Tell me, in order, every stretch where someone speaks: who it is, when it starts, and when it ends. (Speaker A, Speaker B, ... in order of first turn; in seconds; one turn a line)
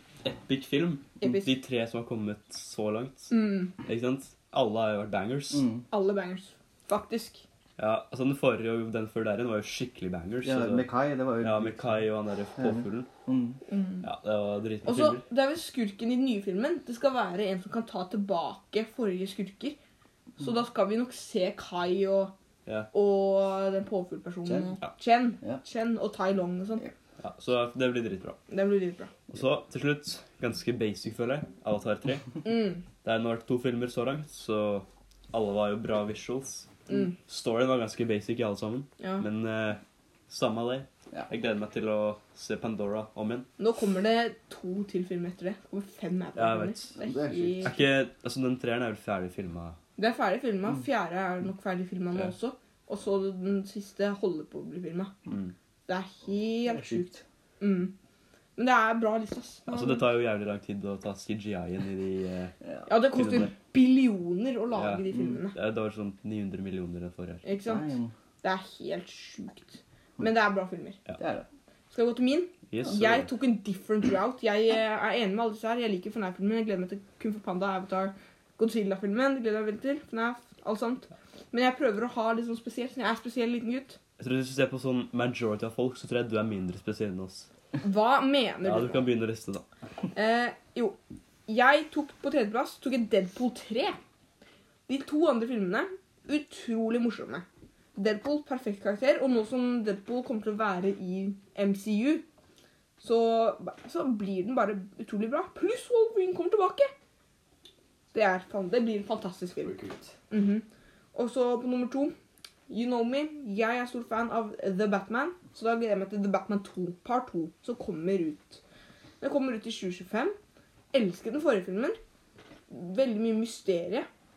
Speaker A: 0.2-5.7
Speaker B: 1.2-1.6
Speaker B: 3.3-3.7
Speaker C: 5.5-5.8
Speaker B: 5.9-7.4
Speaker A: 7.8-10.9
Speaker C: 10.4-12.0
Speaker A: 11.4-13.1
Speaker C: 12.6-13.6
Speaker B: 13.7-14.1
Speaker A: 14.0-15.2
Speaker B: 14.8-19.8
Speaker B: 20.4-22.3
Speaker A: 22.7-22.9
Speaker B: 22.9-26.9
Speaker C: 24.5-24.7
Speaker A: 27.2-28.4
Speaker B: 28.5-29.1
Speaker A: 29.3-32.5
Speaker B: 32.5-32.8
Speaker A: 33.0-43.5
Speaker B: 39.0-39.2
Speaker B: 43.6-47.8
Speaker A: 46.4-46.9
Speaker C: 47.0-47.8
Speaker A: 47.6-49.8
Speaker B: 50.0-55.1
Speaker A: 55.3-55.5
Speaker B: 55.9-57.1
Speaker C: 56.7-57.2
Speaker B: 57.6-57.9
Speaker B: 58.6-60.1
Speaker A: 59.7-62.5
Speaker B: 62.9-65.6
Speaker A: 63.1-63.5
Speaker A: 64.7-67.4
Speaker B: 67.4-67.9
Speaker C: 67.6-68.1
Speaker B: 68.4-71.0
Speaker C: 71.2-71.5
Speaker B: 71.9-84.0
Speaker A: 72.7-73.3
Speaker A: 84.2-87.5
Speaker B: 87.8-89.1
Speaker A: 88.6-89.6
Speaker B: 90.1-94.0
Speaker B: 94.9-97.5
Speaker B: 98.0-102.3
Speaker B: 103.0-106.9
Speaker B: 108.1-109.8
Speaker A: 109.7-110.1
Speaker B: 110.3-112.1
Speaker B: 112.7-118.6
Speaker B: 119.2-120.4
Speaker B: 120.9-122.0
Speaker B: 122.7-124.1